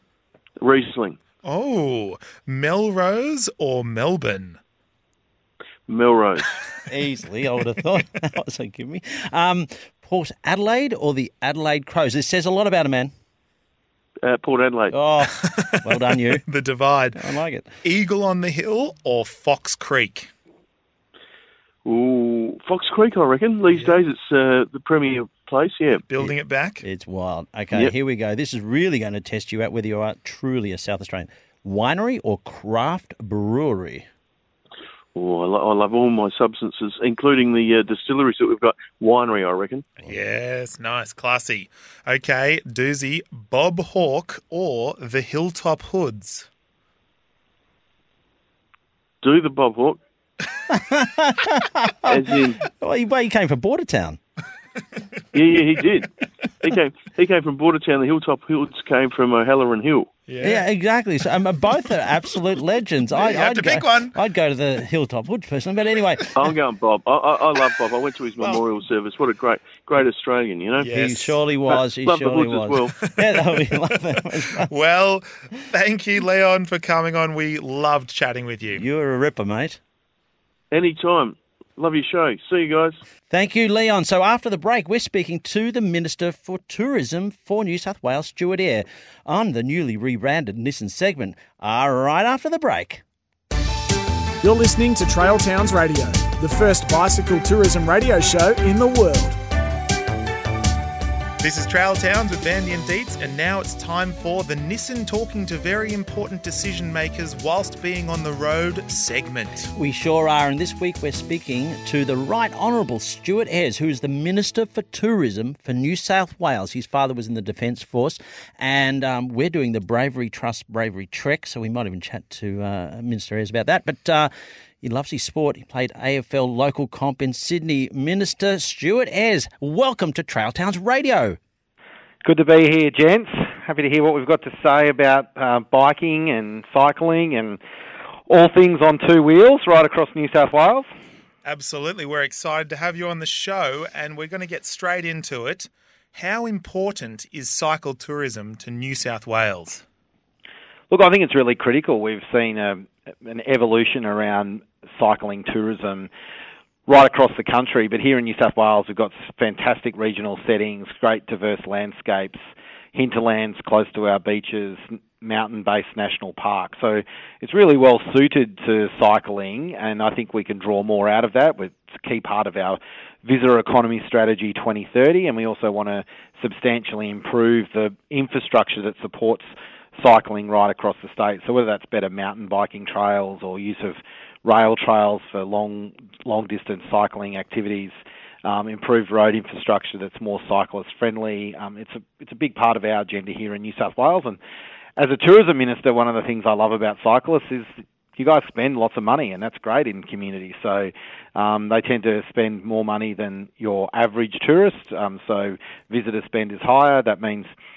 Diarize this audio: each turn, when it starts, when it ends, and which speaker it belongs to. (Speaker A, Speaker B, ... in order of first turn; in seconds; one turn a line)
Speaker A: 0.6-1.2
Speaker B: 1.4-4.6
Speaker A: 5.9-6.5
Speaker C: 6.9-13.1
Speaker A: 14.2-14.9
Speaker C: 14.9-16.4
Speaker B: 15.4-17.3
Speaker C: 17.2-17.7
Speaker B: 17.8-20.3
Speaker A: 21.9-26.0
Speaker B: 23.7-24.0
Speaker B: 26.0-26.8
Speaker C: 26.8-34.1
Speaker A: 35.1-39.9
Speaker B: 40.0-46.5
Speaker A: 49.2-50.0
Speaker C: 50.7-54.2
Speaker A: 52.1-52.6
Speaker A: 55.3-56.1
Speaker A: 56.6-60.1
Speaker B: 60.3-60.6
Speaker C: 60.4-66.3
Speaker B: 63.1-64.2
Speaker A: 66.4-70.9
Speaker B: 70.8-71.3
Speaker C: 70.9-74.7
Speaker A: 72.0-72.9
Speaker B: 73.0-73.8
Speaker B: 74.6-78.8
Speaker C: 78.7-79.8
Speaker A: 80.7-83.0
Speaker C: 83.3-93.0
Speaker D: 94.4-99.4
Speaker B: 101.4-109.7
Speaker C: 109.8-124.3
Speaker C: 124.8-131.4
Speaker E: 132.2-137.6
Speaker E: 138.3-140.9
Speaker B: 141.4-149.8
Speaker E: 150.9-156.1
Speaker E: 156.9-162.4
Speaker E: 162.9-194.4
Speaker E: 195.0-207.5